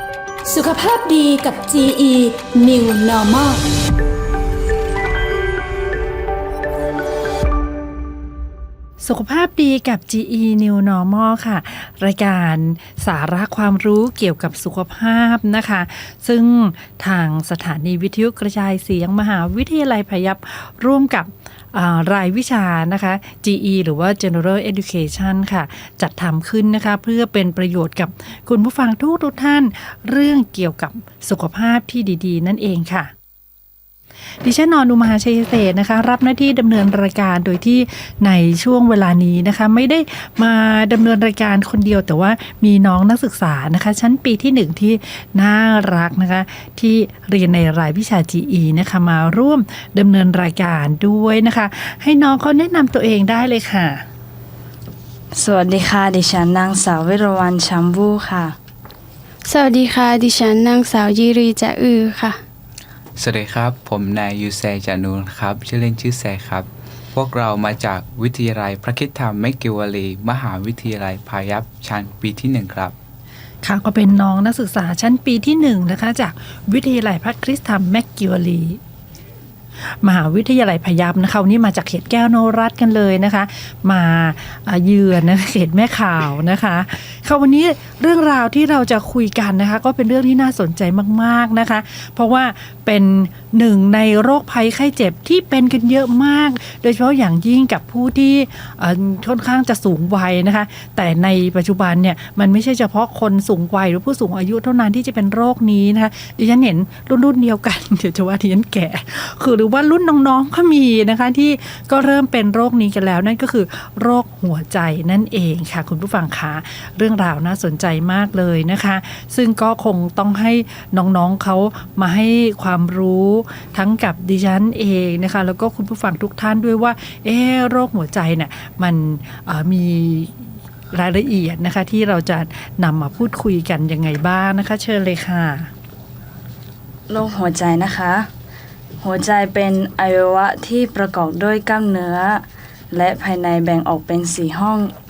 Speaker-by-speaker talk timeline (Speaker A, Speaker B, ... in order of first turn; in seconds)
Speaker A: 0.4-3.7
Speaker B: 9.0-33.1, 34.4-54.0, 73.6-78.8, 79.9-135.7
Speaker C: 55.3-58.5, 137.1-138.3, 139.0-144.9
Speaker D: 59.5-62.4
Speaker E: 63.2-72.9